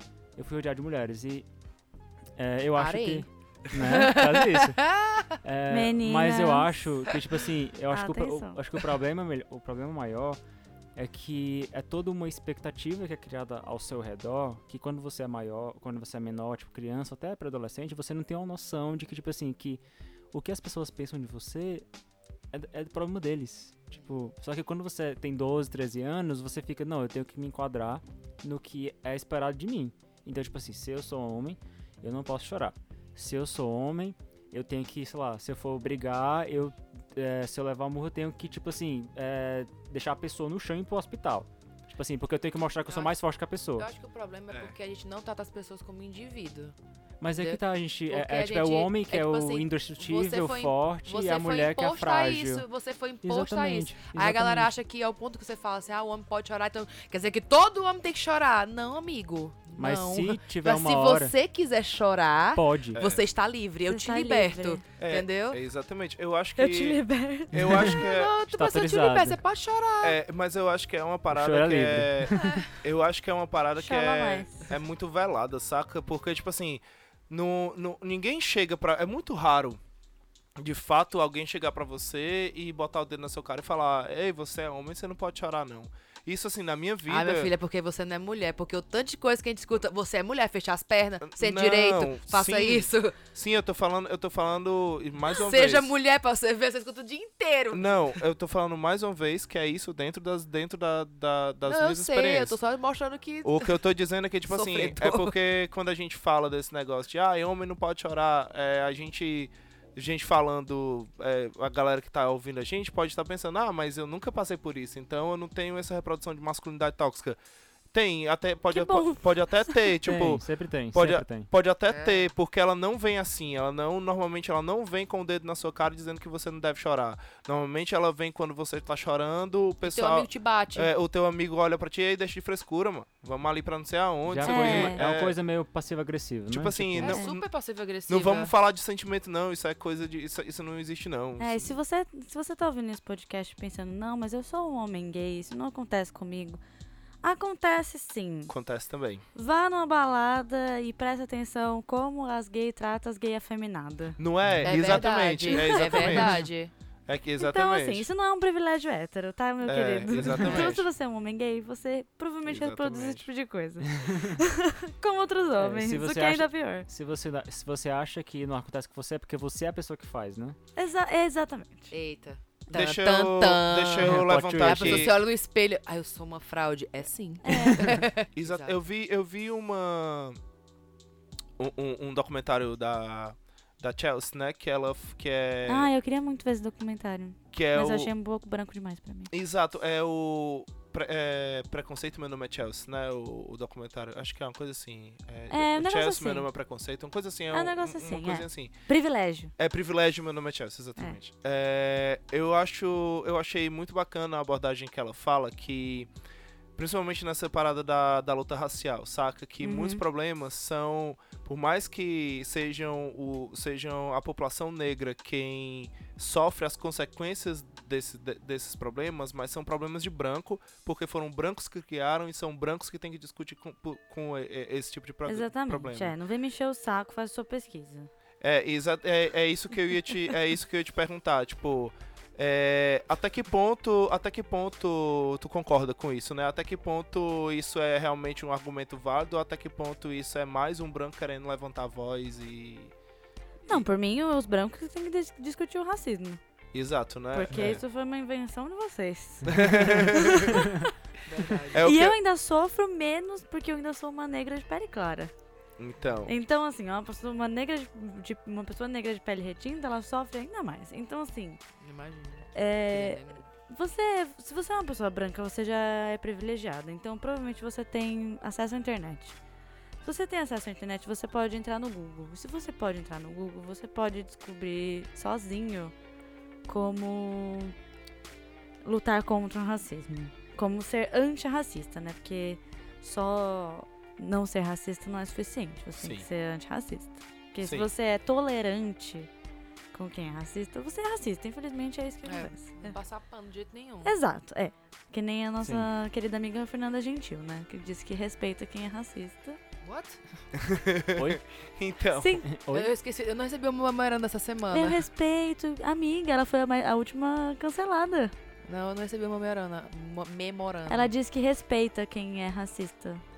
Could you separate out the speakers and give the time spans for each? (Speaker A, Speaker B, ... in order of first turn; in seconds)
Speaker A: 0.3-1.5, 2.4-4.8, 5.4-10.4, 10.9-19.8, 20.3-21.9, 22.5-43.9, 47.2-52.7, 53.2-54.7, 59.8-61.3, 62.5-63.0, 67.5-68.0, 68.5-69.4, 71.3-72.4, 120.0-121.5, 134.3-137.1, 160.2-160.7, 164.0-164.4, 165.6-170.6, 174.0-175.1, 247.5-247.8, 295.6-295.9, 301.1-301.4, 302.4-302.9
Speaker B: 2.8-5.3, 42.9-43.2, 43.8-46.7, 47.3-65.6, 67.8-70.2, 72.3-72.7, 87.1-93.2, 95.3-98.2, 101.7-103.7, 104.5-105.3, 121.9-122.3, 129.8-130.9, 137.0-138.5, 154.6-156.7, 171.9-178.8, 251.2-251.9, 261.8-263.4, 292.2-294.1, 299.8-300.2, 302.7-305.0, 308.6-311.1
Speaker C: 5.7-6.9, 7.9-8.6, 63.9-64.8, 66.6-67.8, 73.8-74.7, 118.7-119.9, 134.4-135.0, 141.4-146.6, 147.2-148.5, 149.3-154.2, 154.9-156.4, 157.4-166.9, 170.8-171.9, 177.4-178.0, 185.7-189.3, 195.5-196.5, 197.5-199.5, 209.6-210.0, 225.2-228.1, 243.7-246.4, 247.3-250.9, 251.8-255.3, 256.3-261.6, 262.5-269.4, 270.0-275.9, 276.7-277.7, 278.8-289.3, 289.9-293.0, 294.0-299.6, 302.1-302.5, 304.7-308.3, 310.9-313.2
Speaker D: 44.5-44.7, 62.9-63.2, 65.0-68.3, 70.0-79.8, 80.6-87.5, 91.2-95.9, 97.7-102.6, 103.4-117.4, 117.9-135.3, 136.5-137.4, 138.1-141.8, 148.5-149.2, 154.2-156.4, 157.1-158.1, 159.6-160.9, 162.4-163.3, 172.7-175.2, 178.3-180.4, 181.6-185.9, 187.5-188.1, 189.3-198.7, 199.6-206.1, 206.8-226.1, 228.4-242.9, 246.7-247.8, 249.4-250.7, 251.7-252.2, 255.8-256.3, 286.0-286.3, 287.6-287.9, 300.5-302.4